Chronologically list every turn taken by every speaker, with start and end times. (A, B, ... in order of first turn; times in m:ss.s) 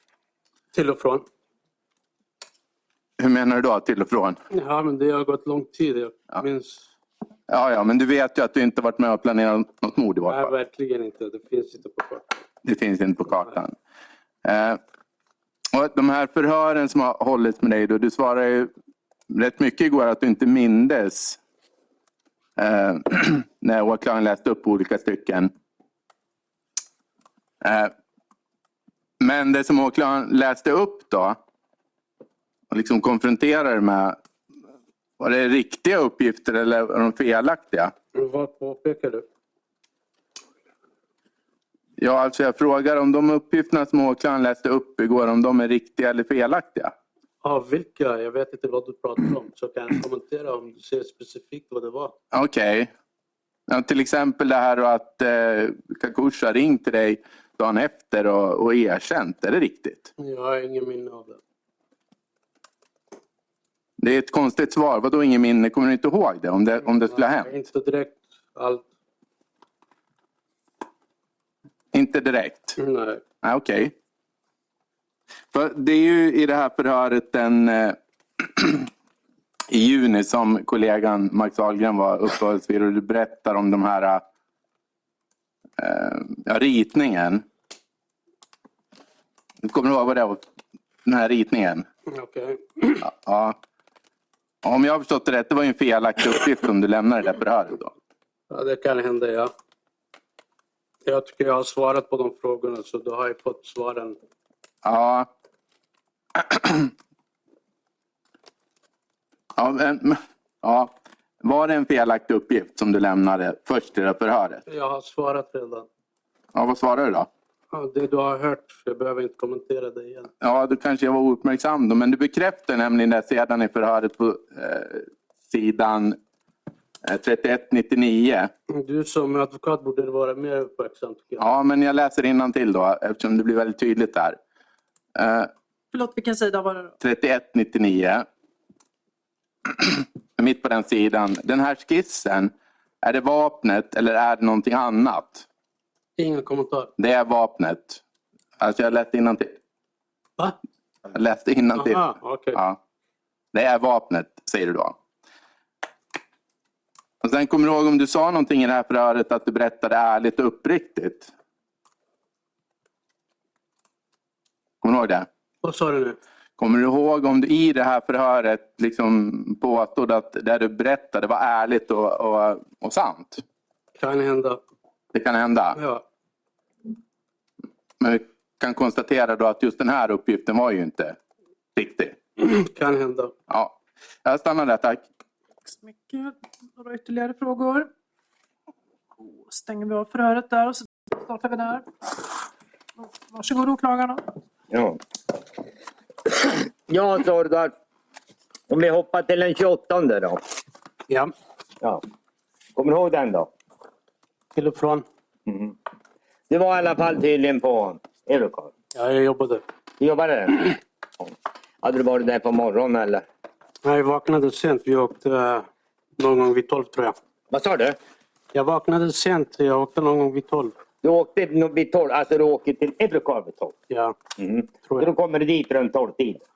0:00.7-0:01.2 A
0:03.2-0:04.4 B
0:04.5-0:06.9 A
0:07.5-0:10.5 B
0:10.2-0:12.4 A
0:12.6-0:13.8 B
0:14.4-0:14.8 B
0:15.7-0:18.7 B
0:19.3-0:21.4 B
0:22.6-0:25.5 B
0:27.6-0:27.9 B
0:29.2-0:31.4 B
0:32.7-0:34.2 B
0:35.2-0:37.9 B
0:38.1-0:39.2 A
0:42.0-0:46.9 B
0:47.4-0:52.1 A
0:52.3-0:52.9 B
0:53.7-1:00.1 B
1:00.2-1:01.4 A
1:04.0-1:07.5 B
1:06.8-1:08.9 A
1:11.9-1:12.8 B
1:12.8-1:13.2 A
1:13.4-1:13.9 B
1:15.5-1:18.9 B
1:19.7-1:24.2 B
1:25.8-1:27.4 B
1:29.6-1:30.4 B
1:31.0-1:31.8 B
1:32.1-1:33.0 A
1:33.0-1:33.6 B
1:34.6-1:37.9 B
1:38.5-1:39.5 A
1:41.0-1:44.2 A
1:44.8-1:45.3 B
1:46.4-1:46.9 B
1:49.6-1:54.6 B
1:54.7-1:55.9 A
1:56.5-1:57.3 B
1:57.7-2:00.3 A
2:00.4-2:06.2 B
2:07.0-2:08.5 B
2:08.7-2:11.5 A
2:11.4-2:14.4 B
2:15.2-2:15.5 B
2:15.9-2:16.9 C
2:17.0-2:18.2 B
2:19.7-2:25.4 B
2:26.2-2:26.9 A
2:27.0-2:28.0 B
2:28.6-2:29.6 B
2:31.1-2:32.8 B
2:31.7-2:32.6 A
2:33.5-2:35.0 B
2:37.2-2:41.3 B
2:44.8-2:45.3 B
2:45.6-2:46.2 A
2:46.6-2:53.4 B
2:54.0-2:54.6 A
2:55.1-2:55.8 B
2:55.7-2:56.0 A
2:58.0-3:01.2 B
3:01.8-3:02.2 B
3:02.4-3:03.3 A
3:03.5-3:05.0 B
3:05.6-3:07.9 C
3:09.4-3:11.9 C
3:13.0-3:14.3 C
3:14.7-3:15.0 D
3:16.4-3:17.7 D
3:18.7-3:20.4 D
3:22.8-3:23.5 D
3:24.5-3:25.0 A
3:25.5-3:25.7 D
3:26.5-3:28.7 D
3:28.9-3:29.6 A
3:30.0-3:31.3 D
3:31.8-3:33.2 D
3:33.8-3:37.2 A
3:37.5-3:38.0 D
3:38.5-3:40.7 A
3:41.0-3:43.7 D
3:43.9-3:44.1 A
3:44.4-3:46.4 D